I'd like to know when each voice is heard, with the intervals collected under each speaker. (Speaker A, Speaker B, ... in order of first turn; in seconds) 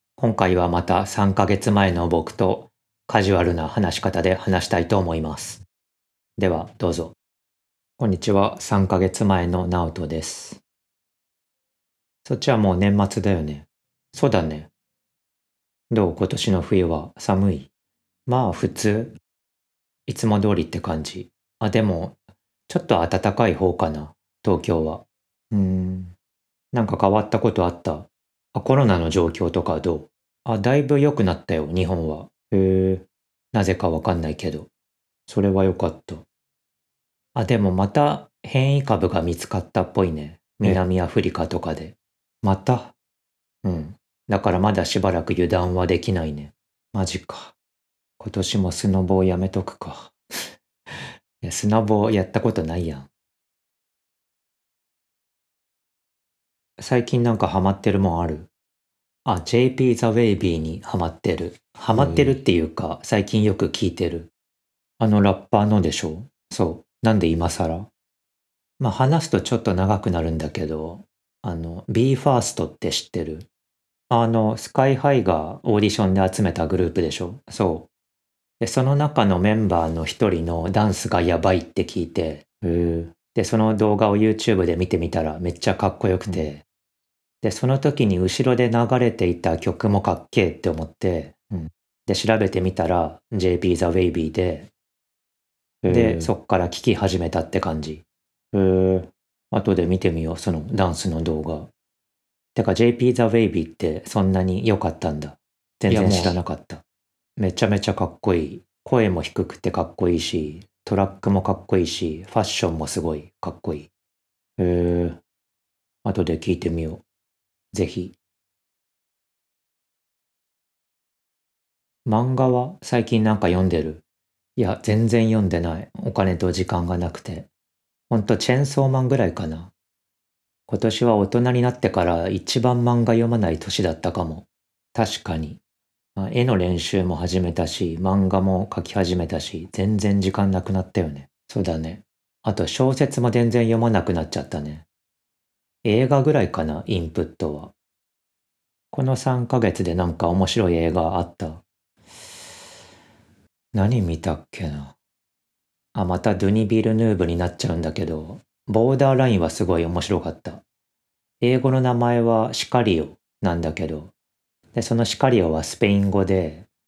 Speaker A: 0.2-5.6, 6.4-7.1, 8.0-10.6, 12.2-14.7, 15.9-17.7, 18.3-19.2, 20.1-22.2, 22.7-26.1, 26.7-34.7, 35.3-36.3, 37.3-42.9, 43.6-47.5, 48.2-50.1, 51.4-53.1, 56.8-58.5, 59.2-64.3, 65.0-67.9, 68.8-73.5, 74.1-77.9, 78.6-86.7, 87.4-94.7, 95.9-101.7, 102.5-106.8, 107.4-113.9, 114.6-115.2, 116.0-117.0, 117.7-118.2, 122.1-124.0, 124.6-127.5, 128.1-129.7, 130.7-135.6, 136.2-144.9, 145.8-147.7, 148.9-151.6, 153.7-155.0, 155.9-160.6, 161.4-164.1, 164.7-166.7